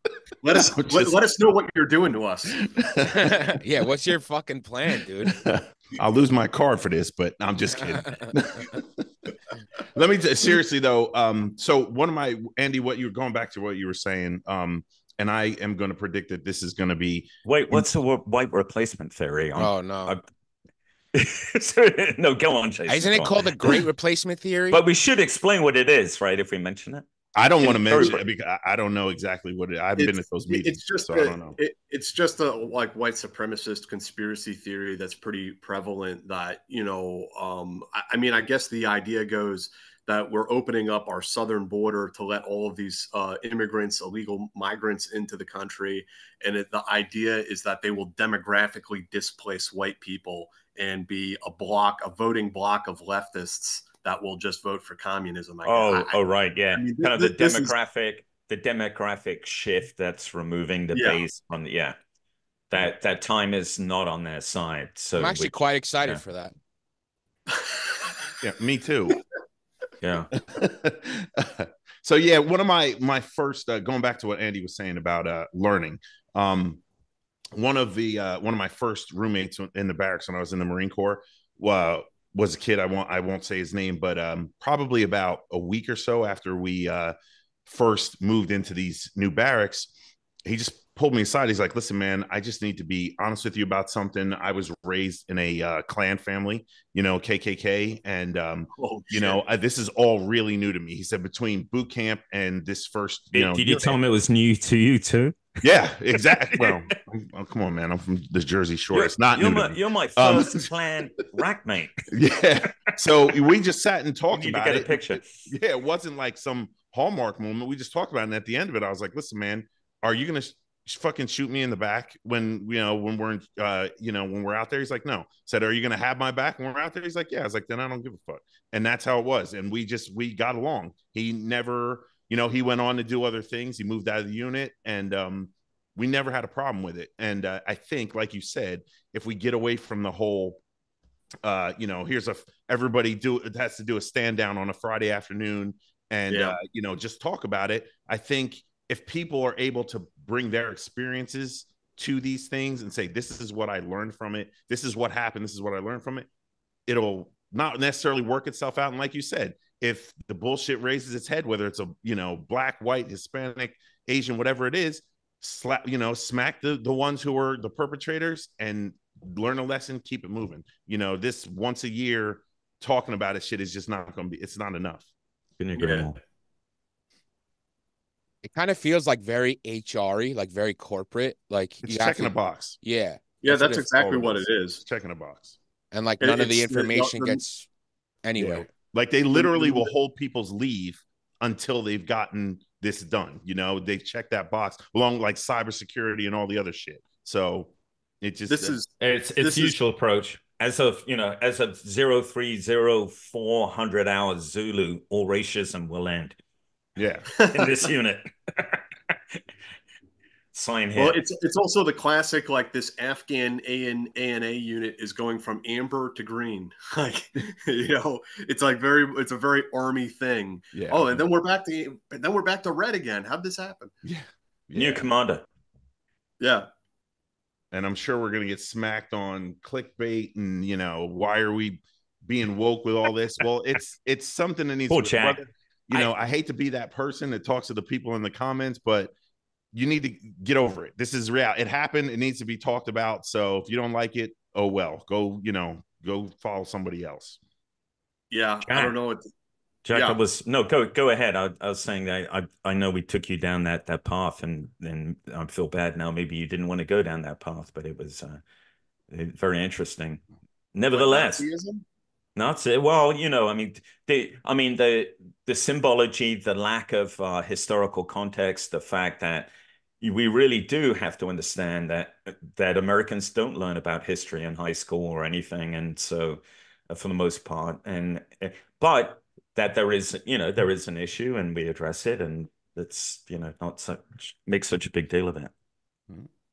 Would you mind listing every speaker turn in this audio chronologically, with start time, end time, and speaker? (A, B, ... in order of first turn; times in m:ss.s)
0:00.4-0:02.6 A
0:00.7-0:01.1 B
0:02.7-0:03.5 B
0:03.0-0:05.4 C
0:05.3-0:17.9 B
0:17.4-0:20.2 D
0:19.6-0:20.2 C
0:21.1-0:23.8 D
0:22.9-0:24.8 C
0:24.7-0:27.1 D
0:27.4-0:31.6 B
0:27.6-0:28.2 D
0:30.0-0:56.2 A
0:55.6-1:02.0 D
0:56.7-0:57.8 A
1:00.9-1:01.2 A
1:02.7-1:06.2 D
1:05.1-1:06.5 C
1:07.5-1:08.1 A
1:08.4-1:09.2 B
1:10.0-1:10.3 D
1:10.4-1:16.8 B
1:17.6-1:27.1 B
1:27.7-1:29.9 B
1:30.4-1:43.7 B
1:38.8-1:39.4 A
1:43.3-1:46.8 D
1:45.6-1:50.7 B
1:48.9-1:52.1 D
1:52.1-2:20.6 B
1:54.3-1:55.3 D
2:21.4-2:36.3 B
2:26.3-2:26.6 A
2:36.9-2:55.1 B
2:55.6-2:56.2 D
2:55.8-2:56.1 A
2:58.4-3:03.9 C
3:01.8-3:02.8 B
3:03.4-3:04.8 A
3:03.6-3:05.6 B
3:05.9-3:07.7 C
3:06.2-3:07.4 A
3:08.2-3:08.7 C
3:08.4-3:18.7 B
3:09.3-3:09.9 A
3:18.5-3:19.8 A
3:19.0-3:26.4 D
3:27.0-3:27.3 B
3:27.3-3:27.8 A
3:27.5-3:28.8 D
3:30.5-3:31.2 D
3:31.0-3:43.9 A
3:40.7-3:41.2 B
3:44.0-3:45.0 B
3:44.8-3:45.4 D
3:46.4-3:46.7 A
3:47.7-3:59.1 B
3:54.9-3:56.1 D
3:59.7-4:07.4 B
4:08.3-4:09.3 A
4:08.6-4:09.0 D
4:09.8-4:18.4 D
4:09.9-4:10.2 A
4:19.1-4:20.2 D
4:20.7-4:21.4 D
4:20.9-4:21.8 A
4:22.4-4:29.5 D
4:30.0-4:45.5 D